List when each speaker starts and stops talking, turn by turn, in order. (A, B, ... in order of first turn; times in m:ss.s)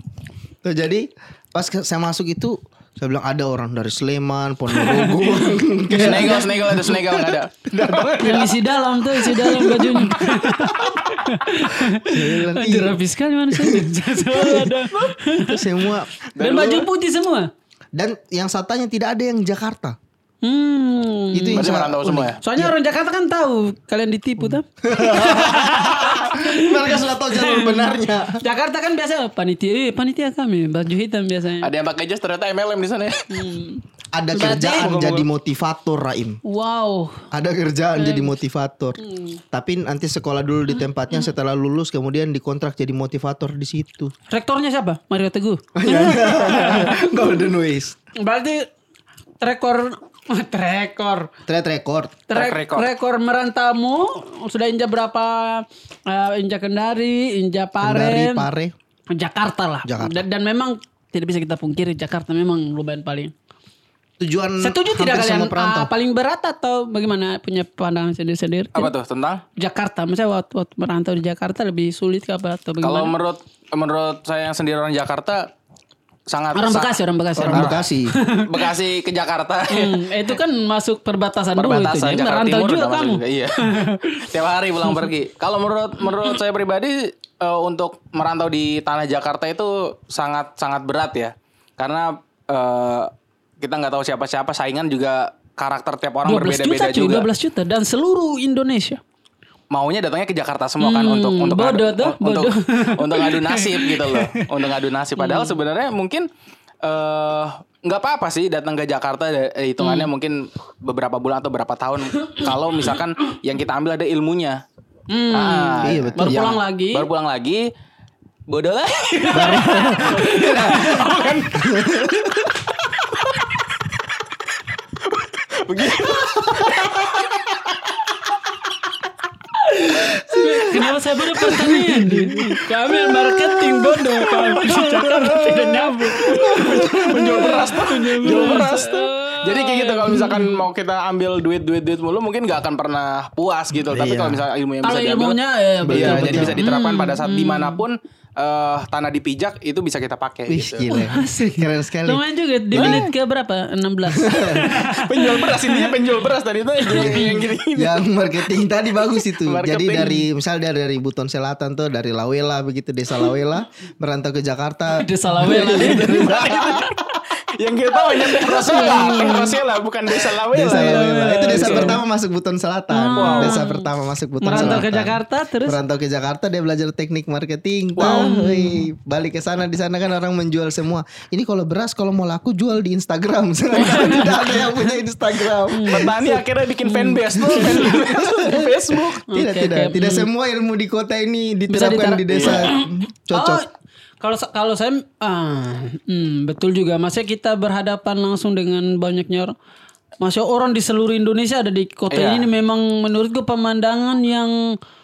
0:00.6-0:08.6 A
0:04.7-0:06.7 B
0:06.0-0:08.5 C
0:08.2-0:15.8 B
0:09.1-0:11.0 A
0:11.9-0:13.0 A
0:13.5-0:14.7 A
0:15.4-0:16.1 A
0:16.3-0:16.9 C
0:16.4-0:17.5 B
0:17.9-0:20.0 A
0:20.4-0:21.7 B
0:21.3-0:22.7 A
0:21.5-0:22.4 C
0:22.4-0:31.7 B
0:24.4-0:28.4 A
0:31.6-0:33.5 C
0:33.3-0:33.8 B
0:34.1-0:36.4 A
0:34.3-0:35.2 B
0:34.4-0:35.2 C
0:36.4-0:37.2 B
0:37.3-0:39.0 A
0:38.0-0:38.3 B
0:39.0-0:39.4 B
0:39.5-0:44.1 A
0:44.3-0:47.0 B
0:45.7-0:48.0 A
0:48.2-0:48.7 B
0:49.4-0:51.3 B
0:51.4-0:52.2 A
0:52.3-0:58.5 B
0:52.3-0:52.9 C
0:57.8-0:58.7 A
0:59.1-1:03.3 B
0:59.8-1:00.2 A
1:04.2-1:05.9 A
1:04.6-1:08.9 B
1:08.7-1:09.4 C
1:09.6-1:13.1 B
1:12.8-1:15.5 C
1:16.3-1:16.9 C
1:16.5-1:18.7 B
1:17.4-1:18.1 A
1:17.5-1:17.8 C
1:18.4-1:20.1 C
1:19.7-1:24.3 B
1:21.6-1:23.7 C
1:24.2-1:37.3 C
1:36.2-1:39.0 B
1:39.7-1:46.2 C
1:40.8-1:44.5 B
1:45.2-1:45.6 B
1:46.8-1:54.6 C
1:49.8-1:50.1 B
1:55.1-1:57.0 B
1:55.3-1:57.6 C
1:55.8-1:56.6 A
1:58.5-2:02.4 C
1:59.3-2:01.4 B
1:59.3-2:00.9 A
2:01.6-2:02.5 A
2:03.1-2:03.8 C
2:05.0-2:07.5 C
2:06.0-2:07.3 A
2:09.5-2:20.6 B
2:10.0-2:12.3 A
2:12.9-2:25.4 C
2:16.5-2:16.8 A
2:23.7-2:24.4 A
2:24.8-2:27.8 B
2:25.8-2:26.6 A
2:25.9-2:30.9 C
2:30.5-2:33.1 A
2:30.9-2:36.0 B
2:32.7-2:33.0 C
2:34.1-2:34.7 A
2:34.9-2:38.0 C
2:36.8-2:37.4 B
2:36.9-2:47.0 A
2:39.4-2:40.2 C
2:44.9-2:47.0 B
2:45.6-2:46.8 C
2:47.5-2:52.0 C
2:48.2-2:49.6 B
2:48.5-2:49.4 A
2:50.5-3:06.1 A
2:50.6-2:52.0 B
2:52.9-2:53.9 B
2:53.2-2:53.6 C
2:54.4-2:55.8 B
2:54.5-2:54.8 C
2:58.0-2:58.3 C
2:58.0-2:58.8 B
3:03.8-3:04.4 B
3:03.8-3:04.6 C
3:05.7-3:08.0 B
3:05.7-3:09.2 C
3:07.4-3:13.6 A
3:09.3-3:10.3 B
3:11.7-3:13.6 B
3:12.3-3:12.7 C
3:14.2-3:19.5 B
3:20.2-3:24.8 B
3:22.1-3:22.5 C